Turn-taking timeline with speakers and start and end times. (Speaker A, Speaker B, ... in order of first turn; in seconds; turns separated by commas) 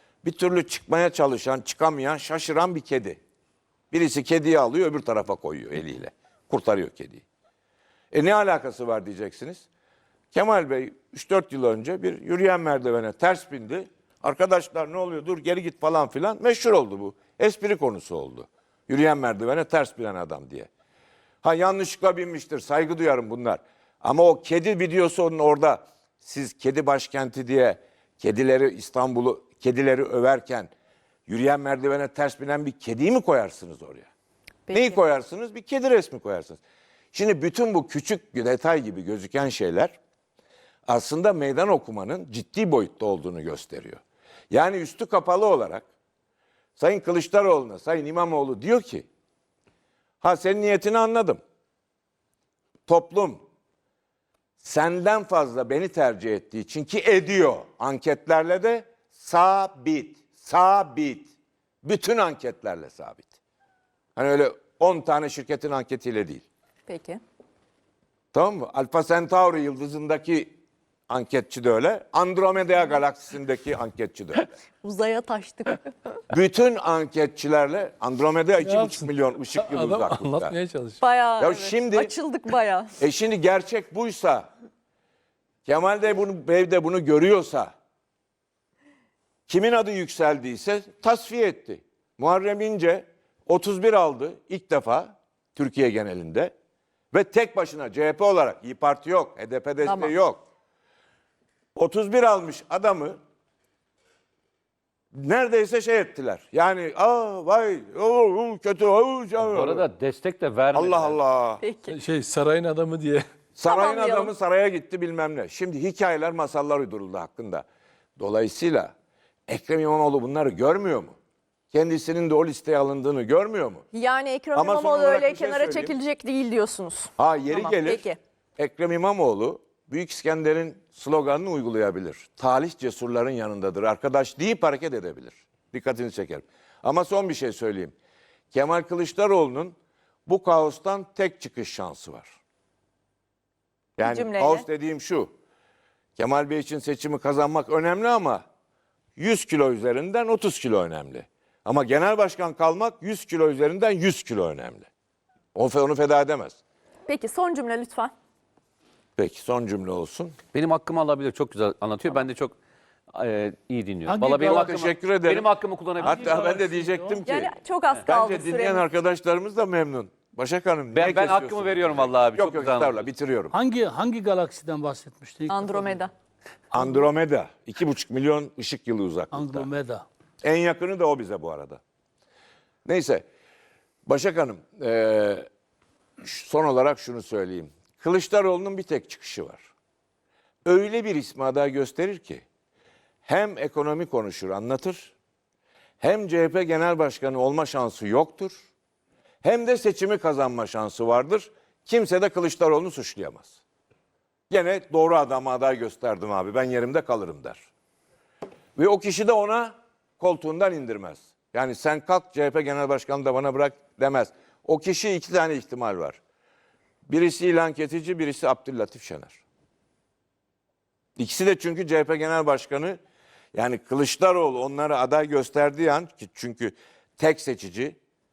Speaker A: 0.2-3.2, Speaker A: 3.9-7.2, Speaker A: 8.1-9.7, Speaker A: 10.3-20.7, Speaker A: 21.4-30.7, Speaker A: 31.3-34.1, Speaker B: 34.7-35.0, Speaker A: 34.7-36.6, Speaker A: 37.1-40.0, Speaker A: 40.9-45.9, Speaker A: 46.8-49.0, Speaker A: 50.2-51.4, Speaker A: 52.9-53.4, Speaker A: 54.6-61.3, Speaker A: 61.8-63.3, Speaker A: 64.2-66.4, Speaker B: 66.9-67.2, Speaker A: 68.3-70.5, Speaker A: 71.1-74.5, Speaker B: 74.8-75.9, Speaker A: 76.3-80.6, Speaker C: 78.6-81.0, Speaker B: 81.0-83.0, Speaker A: 81.4-82.1, Speaker A: 83.0-84.5, Speaker A: 85.6-87.7, Speaker A: 89.5-96.5, Speaker A: 97.1-100.4, Speaker B: 99.8-100.1, Speaker A: 101.7-103.2, Speaker A: 105.1-109.8, Speaker D: 109.4-111.2, Speaker A: 110.7-111.6, Speaker B: 111.6-112.0, Speaker C: 111.9-113.2, Speaker A: 113.5-117.6, Speaker B: 113.6-114.3, Speaker A: 118.2-118.9, Speaker A: 119.5-121.1, Speaker A: 121.7-123.8, Speaker B: 123.9-128.2, Speaker A: 124.5-125.9, Speaker A: 127.2-128.1, Speaker A: 128.6-137.9, Speaker A: 138.5-142.3, Speaker A: 144.0-145.3, Speaker B: 144.0-144.6, Speaker A: 146.2-148.4, Speaker A: 149.2-154.9, Speaker A: 155.5-156.6, Speaker B: 157.1-158.1, Speaker A: 159.2-160.3, Speaker D: 160.5-162.5, Speaker D: 163.1-166.7, Speaker E: 164.1-164.8, Speaker A: 164.4-165.5, Speaker A: 166.0-173.5, Speaker E: 166.0-167.2, Speaker B: 167.2-168.8, Speaker D: 170.9-173.0, Speaker E: 173.5-176.0, Speaker B: 175.5-176.1, Speaker A: 176.7-179.7, Speaker E: 179.3-180.0, Speaker A: 180.4-181.8, Speaker A: 182.8-183.2, Speaker A: 184.1-185.5, Speaker A: 186.2-189.7, Speaker A: 190.6-192.4, Speaker A: 193.2-195.1, Speaker A: 196.0-198.6, Speaker A: 199.4-203.6, Speaker A: 204.5-207.7, Speaker A: 208.8-216.2, Speaker A: 217.1-219.4, Speaker A: 221.2-223.0, Speaker A: 223.5-228.0